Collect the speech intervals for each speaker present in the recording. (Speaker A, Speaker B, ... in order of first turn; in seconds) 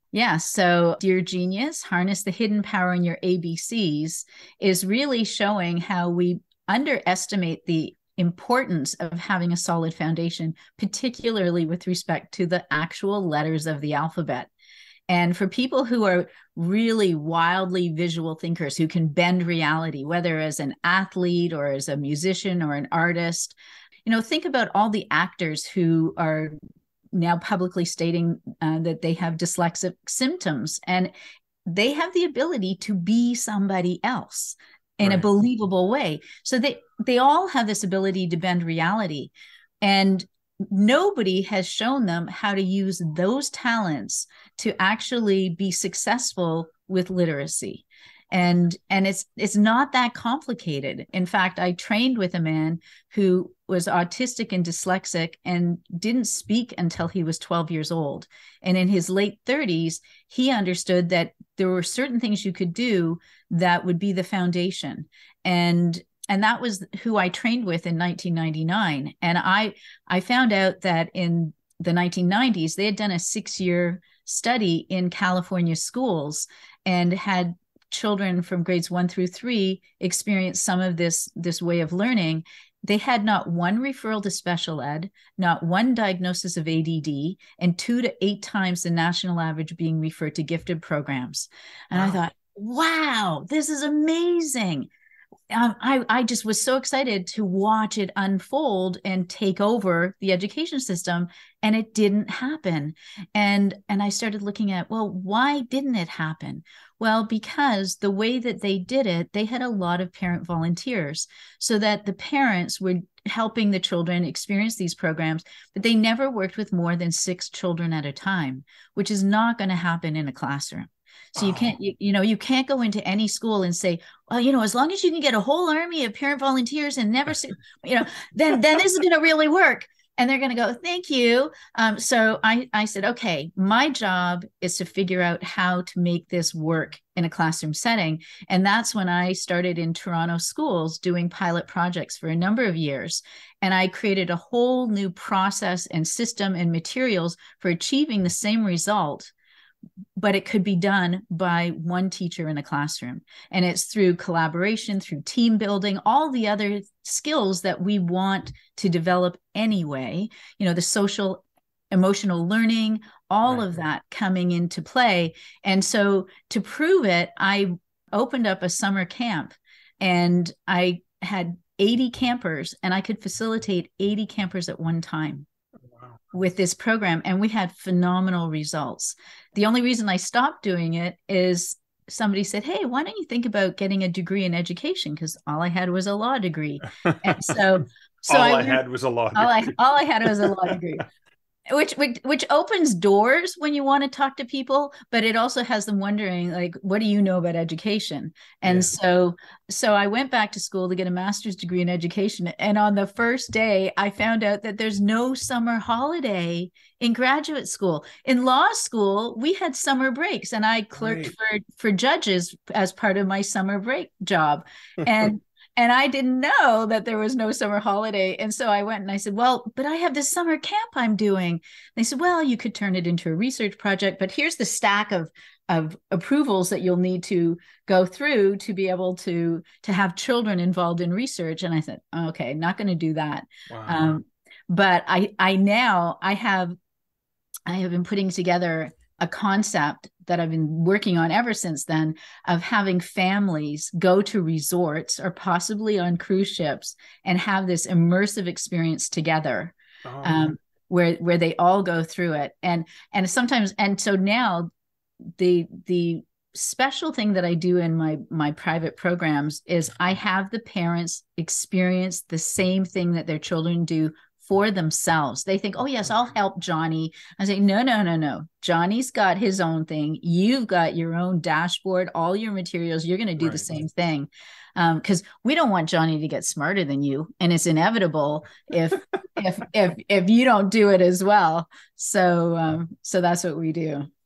Speaker A: 0.1-14.5, 15.1-26.6, 27.1-31.1, 31.7-94.9, 95.5-149.3, 150.2-175.5, 176.3-188.8, 189.3-191.1, 191.7-236.8, 237.7-254.7, 255.4-284.1
Speaker B: 91.9-92.2, 121.4-121.8, 163.5-163.8, 187.1-187.6, 188.3-190.8, 198.6-198.9, 210.9-211.3, 215.0-215.3, 233.7-234.2, 250.0-250.5, 273.4-273.7